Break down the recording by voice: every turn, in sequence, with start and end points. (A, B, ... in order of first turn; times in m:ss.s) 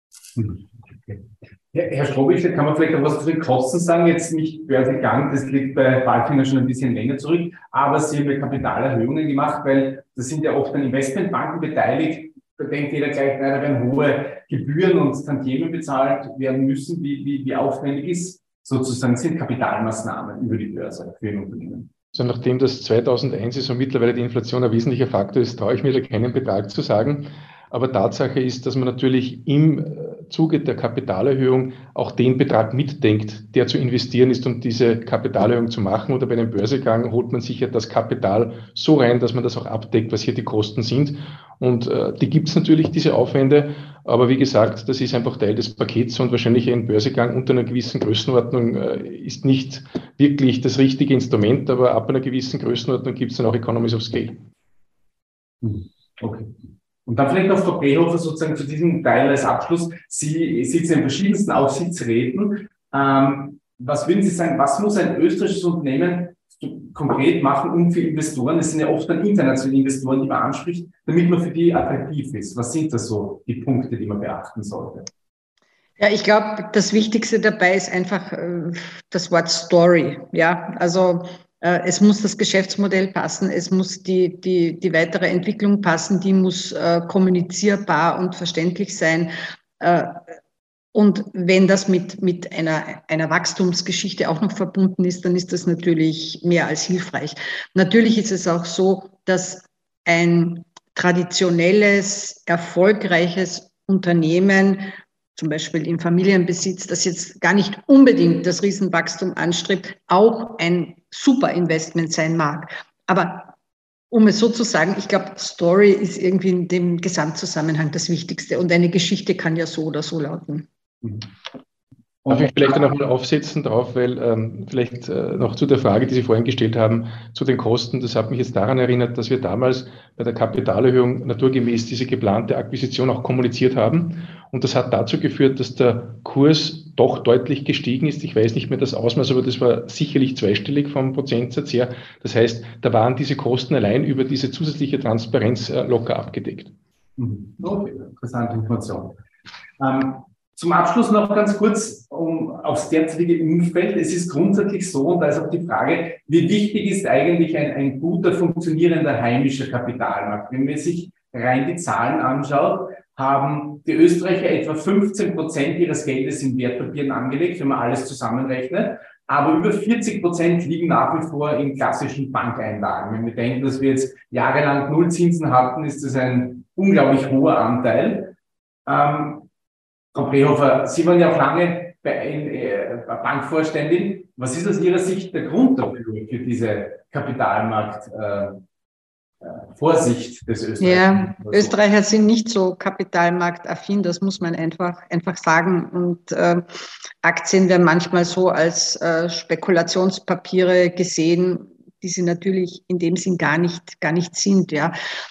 0:00.4-0:21.9 A
0:22.1-0:54.5 B
0:55.6-0:56.5 A
0:57.0-1:15.1 A
1:16.0-1:30.2 C
1:30.9-1:53.5 C
1:54.1-2:00.7 C
2:01.0-2:01.3 A
2:02.2-2:02.5 A
2:02.3-2:26.7 B
2:27.2-2:29.2 A
2:29.8-2:58.3 A
2:58.9-2:59.5 A
3:00.1-3:08.6 A
3:09.4-3:11.8 A
3:10.8-3:16.6 C
3:17.2-3:24.9 C